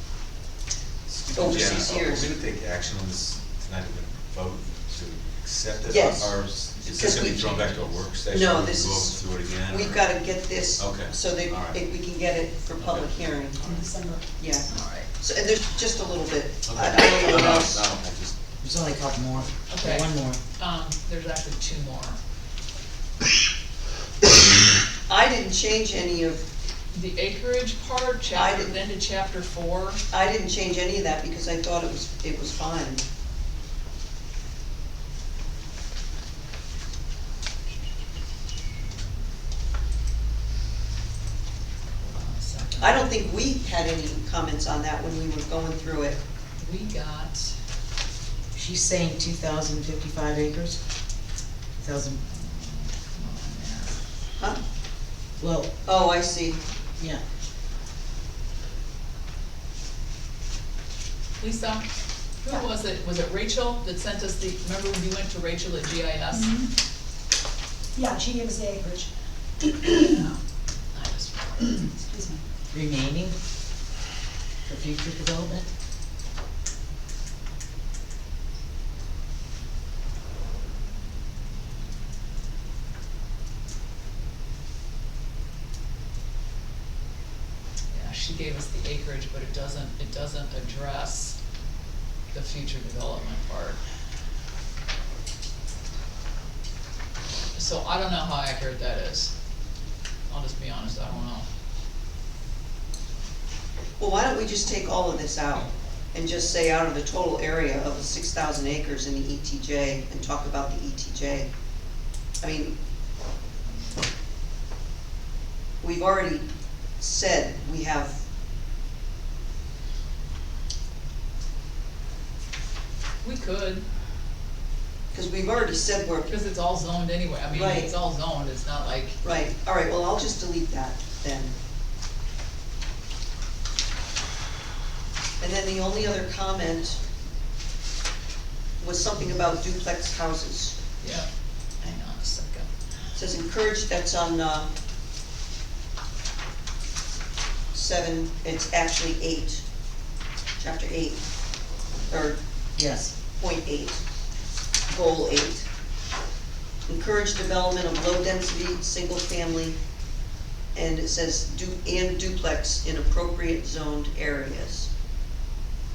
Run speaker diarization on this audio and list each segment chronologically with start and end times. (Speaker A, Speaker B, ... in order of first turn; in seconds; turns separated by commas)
Speaker A: 1.1-10.2, Speaker B: 1.3-2.3, Speaker B: 5.9-7.6, Speaker C: 7.5-7.8, Speaker B: 8.3-17.8, Speaker A: 10.8-11.8, Speaker A: 12.8-13.1, Speaker D: 13.6-14.2, Speaker C: 14.7-15.1, Speaker A: 16.7-18.4, Speaker E: 18.6-20.4, Speaker C: 19.7-22.2, Speaker B: 25.1-26.4, Speaker C: 26.9-30.0, Speaker B: 28.3-28.8, Speaker B: 30.1-33.0, Speaker C: 42.0-43.0, Speaker B: 42.8-46.2, Speaker C: 46.6-47.5, Speaker E: 48.5-50.8, Speaker E: 51.8-52.2, Speaker C: 52.3-54.0, Speaker E: 55.4-55.7, Speaker B: 55.9-56.6, Speaker C: 61.4-61.8, Speaker C: 62.4-66.6, Speaker D: 66.3-66.7, Speaker D: 68.0-69.1, Speaker D: 69.6-70.2, Speaker C: 69.9-70.4, Speaker C: 70.9-71.9, Speaker D: 71.8-72.4, Speaker E: 72.7-73.4, Speaker E: 74.7-75.7, Speaker C: 87.9-91.4, Speaker C: 92.3-93.8, Speaker C: 97.5-99.3, Speaker C: 100.3-101.5, Speaker B: 104.0-111.5, Speaker B: 112.4-112.7, Speaker B: 115.8-116.5, Speaker B: 117.0-118.2, Speaker C: 123.2-123.8, Speaker B: 125.1-126.3, Speaker C: 126.3-129.2, Speaker B: 127.5-127.9, Speaker B: 129.2-131.5, Speaker B: 135.4-137.0, Speaker B: 138.8-140.8, Speaker C: 141.0-141.3, Speaker C: 141.8-142.7, Speaker B: 143.2-144.7, Speaker B: 147.7-149.6, Speaker B: 150.6-151.2, Speaker B: 152.1-152.4, Speaker E: 152.8-153.1, Speaker B: 153.4-154.0, Speaker B: 154.9-155.7, Speaker B: 156.9-159.8, Speaker B: 160.7-164.9